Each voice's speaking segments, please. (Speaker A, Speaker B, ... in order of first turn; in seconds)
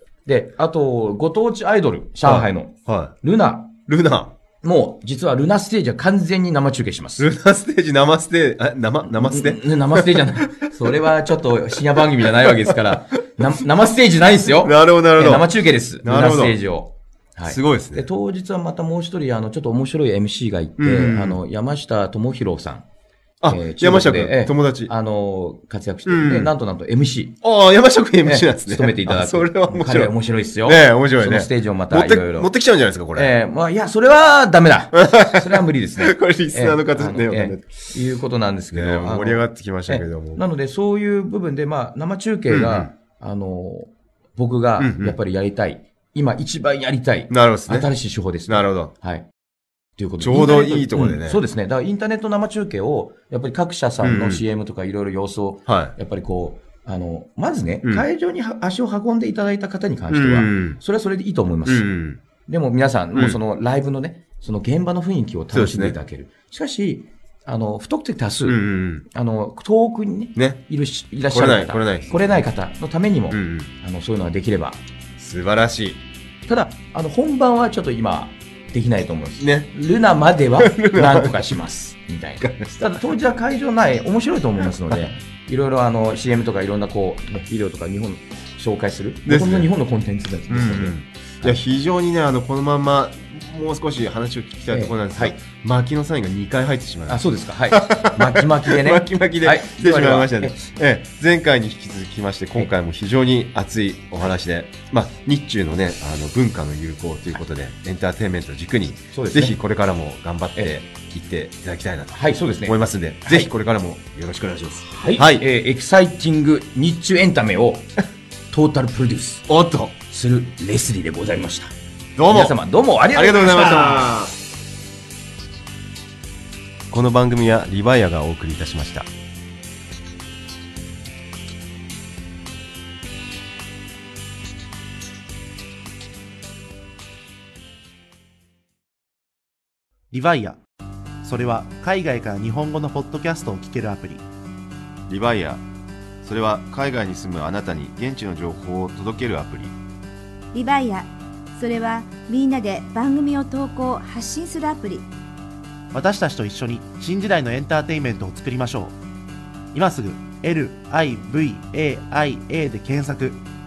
Speaker A: 0.2-3.8, 4.6-7.2, 9.1-22.8, 23.5-27.4, 28.2-32.5, 33.1-49.3, 50.0-61.9, 62.5-74.8, 76.5-91.6, 94.7-95.4, 97.1-100.6, 109.1-109.6, 112.1-113.5, 114.8-117.9, 118.5-119.5, 120.1-121.7, 122.3-124.2
Speaker B: 2.2-3.1, 3.9-4.3, 7.2-11.1, 11.7-13.0, 14.4-16.6, 17.4-18.1, 20.8-21.4, 23.4-24.9, 26.1-26.5, 27.4-30.1, 30.6-33.3, 34.9-37.8, 38.7-40.4, 42.5-42.9, 44.8-45.1, 47.3-47.9, 48.5-48.9, 50.2-51.4, 54.0-54.4, 55.7-55.9, 60.1-60.8, 61.6-62.2, 65.5-66.0, 68.5-69.0, 70.3-70.6, 71.3-72.2, 73.3-73.7, 75.2-76.0, 79.4-79.7, 80.6-81.5, 82.4-83.0, 89.2-89.7, 90.5-115.4, 119.5-119.9, 122.2-122.5, 123.1-124.3, 126.9-129.1, 145.1-145.6, 146.2-149.8
Speaker C: 140.1-140.6, 141.2-144.2, 155.9-159.0, 159.7-163.4
Speaker D: 150.5-155.1